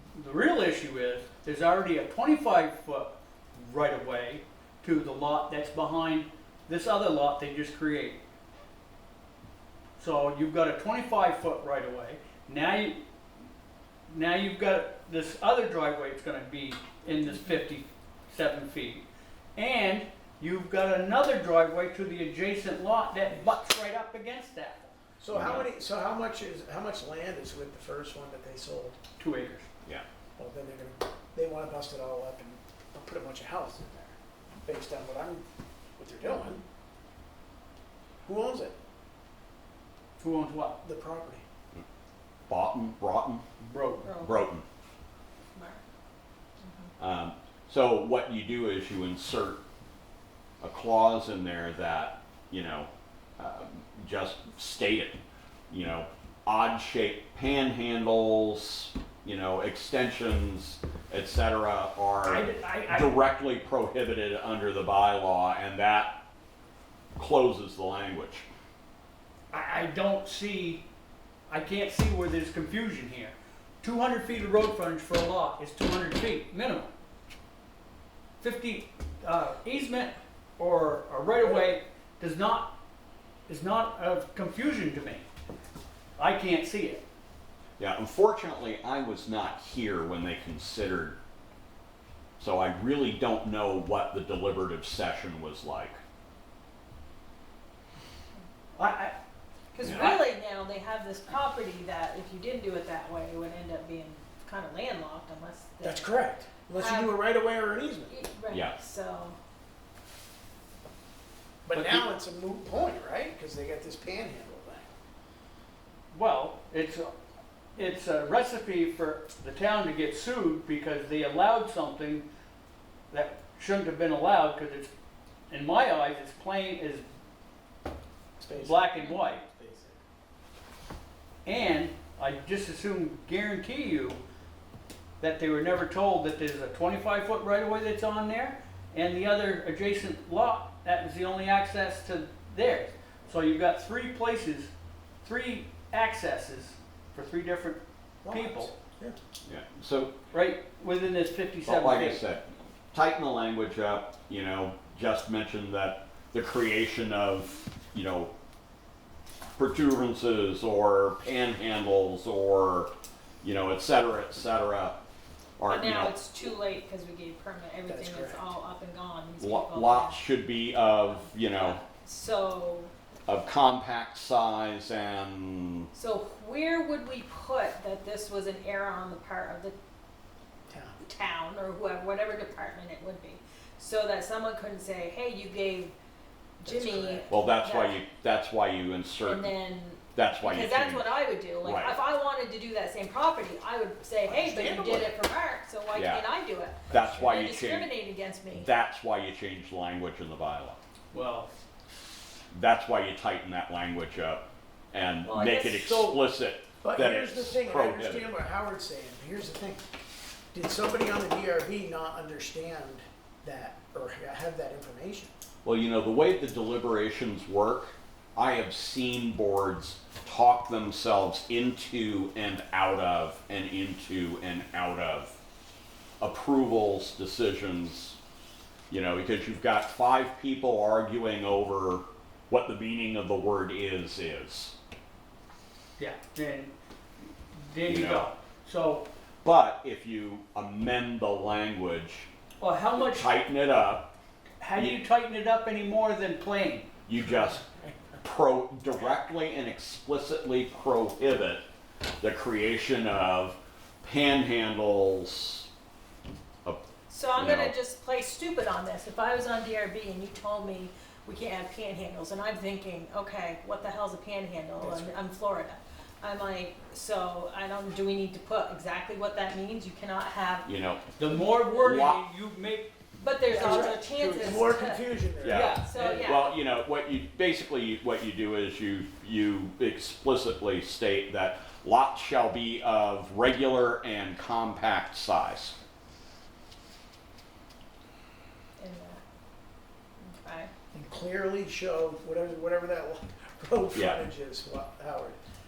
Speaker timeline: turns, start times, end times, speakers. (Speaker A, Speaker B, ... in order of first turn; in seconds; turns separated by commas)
Speaker A: 0.1-8.2, Speaker A: 10.0-13.0, Speaker A: 14.1-19.1, Speaker A: 19.6-24.9, Speaker B: 25.2-29.0, Speaker C: 25.3-25.7, Speaker A: 29.2-29.7, Speaker B: 30.4-35.4, Speaker B: 36.0-36.6, Speaker B: 38.2-38.8, Speaker A: 40.2-40.8, Speaker B: 40.8-41.4, Speaker C: 42.5-43.5, Speaker A: 43.6-44.1, Speaker D: 44.0-44.5, Speaker C: 44.2-44.6, Speaker D: 45.5-45.8, Speaker D: 46.6-46.9, Speaker C: 47.0-49.6, Speaker C: 50.6-55.2, Speaker C: 55.7-66.2, Speaker A: 62.2-63.1, Speaker C: 67.2-68.5, Speaker A: 69.5-70.8, Speaker A: 71.5-76.9, Speaker A: 78.4-82.8, Speaker B: 81.4-81.7, Speaker A: 83.5-85.3, Speaker A: 86.2-87.0, Speaker C: 87.8-91.2, Speaker C: 92.4-96.0, Speaker A: 98.8-99.2, Speaker D: 99.7-106.1, Speaker C: 99.8-100.2, Speaker B: 105.8-108.1, Speaker D: 106.8-107.2, Speaker D: 108.1-109.4, Speaker C: 108.5-108.8, Speaker B: 111.7-114.9, Speaker A: 111.7-112.1, Speaker A: 116.1-117.1, Speaker A: 117.8-122.3, Speaker A: 123.1-124.9, Speaker A: 125.5-127.0, Speaker B: 128.4-130.0, Speaker A: 128.5-129.4, Speaker A: 131.4-134.2, Speaker A: 135.2-144.7, Speaker A: 145.2-148.7, Speaker B: 148.2-149.2, Speaker C: 149.4-150.2, Speaker A: 150.3-152.2, Speaker C: 151.7-158.3, Speaker C: 159.6-162.9, Speaker C: 163.4-165.0, Speaker C: 165.6-166.1, Speaker D: 165.7-170.2, Speaker B: 167.9-168.4, Speaker C: 169.4-171.8, Speaker D: 171.2-172.9, Speaker C: 173.3-175.9, Speaker D: 175.9-179.8, Speaker B: 180.7-181.0, Speaker D: 181.0-185.9, Speaker D: 186.6-188.0, Speaker B: 186.6-187.3, Speaker C: 187.3-189.5, Speaker D: 189.2-198.7, Speaker C: 190.2-191.9, Speaker B: 194.3-195.2, Speaker C: 195.9-196.2, Speaker C: 196.9-197.9, Speaker C: 198.6-200.8, Speaker A: 201.1-201.5, Speaker C: 202.5-208.3, Speaker D: 205.2-206.1, Speaker B: 206.8-209.8, Speaker B: 210.5-215.3, Speaker C: 215.6-225.4, Speaker C: 226.2-228.2, Speaker C: 228.9-234.7, Speaker A: 236.0-236.7, Speaker A: 237.5-239.1, Speaker C: 237.9-238.3, Speaker C: 239.4-242.3, Speaker A: 242.6-243.3, Speaker C: 243.0-244.2, Speaker A: 244.6-246.9, Speaker C: 247.1-247.7, Speaker C: 248.2-251.6, Speaker C: 252.2-255.7, Speaker D: 257.1-270.7, Speaker C: 257.3-257.7, Speaker B: 264.8-265.2, Speaker C: 270.6-271.1, Speaker A: 271.2-273.0, Speaker C: 271.7-272.2, Speaker D: 273.2-275.1, Speaker B: 273.5-275.7, Speaker C: 275.4-285.8, Speaker A: 275.4-276.3, Speaker D: 275.8-276.6, Speaker D: 288.8-289.2, Speaker D: 290.2-290.7, Speaker B: 290.9-295.4, Speaker C: 293.9-294.2